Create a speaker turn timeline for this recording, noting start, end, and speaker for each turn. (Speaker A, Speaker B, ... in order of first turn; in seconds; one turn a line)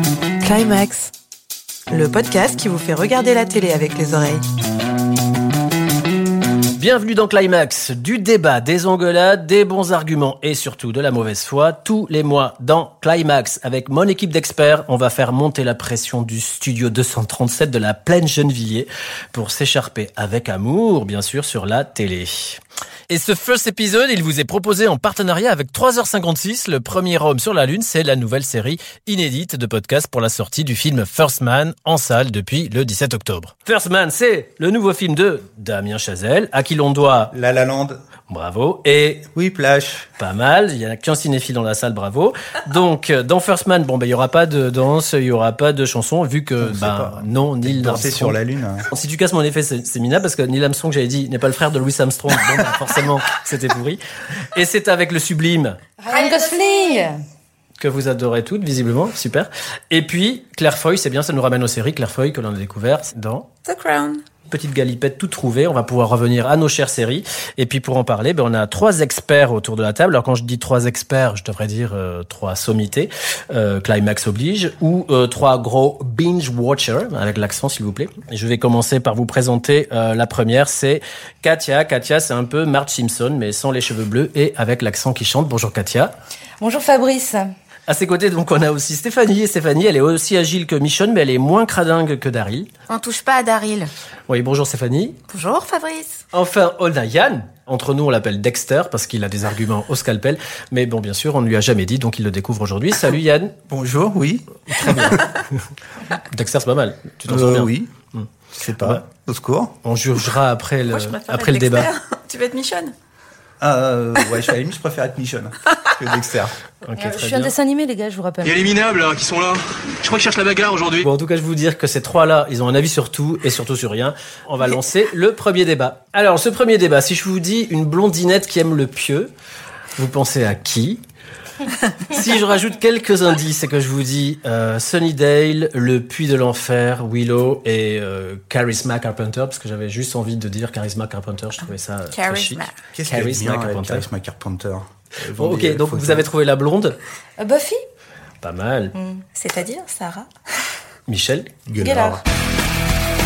Speaker A: 0.4-1.1
Speaker A: 1.9-4.4
Speaker B: 6.8-37.3
Speaker C: 37.3-38.0
Speaker B: 38.3-39.3
Speaker C: 39.3-40.1
Speaker B: 40.2-48.4
Speaker C: 46.6-48.9
Speaker B: 48.9-54.0
Speaker B: 54.5-55.8
Speaker D: 56.0-57.2
Speaker E: 56.1-56.8
Speaker B: 57.8-63.5
Speaker E: 63.6-64.2
Speaker B: 64.5-86.1
Speaker D: 86.6-87.5
Speaker B: 87.9-92.7
Speaker E: 92.9-93.9
Speaker B: 94.3-95.2
Speaker E: 95.3-96.2
Speaker B: 96.3-103.5
Speaker C: 103.7-105.4
Speaker B: 104.7-105.5
Speaker B: 106.3-108.3
Speaker C: 107.3-107.9
Speaker C: 108.5-109.7
Speaker B: 109.8-111.9
Speaker E: 110.8-112.9
Speaker C: 113.6-116.5
Speaker B: 116.8-117.5
Speaker D: 117.0-118.7
Speaker F: 118.4-121.1
Speaker B: 121.0-129.3
Speaker B: 130.0-131.0
Speaker B: 132.0-144.1
Speaker E: 141.6-142.8
Speaker C: 142.9-146.3
Speaker B: 145.4-147.0
Speaker D: 147.4-147.8
Speaker B: 148.4-148.9
Speaker D: 148.9-149.2
Speaker E: 149.3-150.3
Speaker B: 151.1-151.5
Speaker C: 151.7-152.2
Speaker D: 151.8-152.2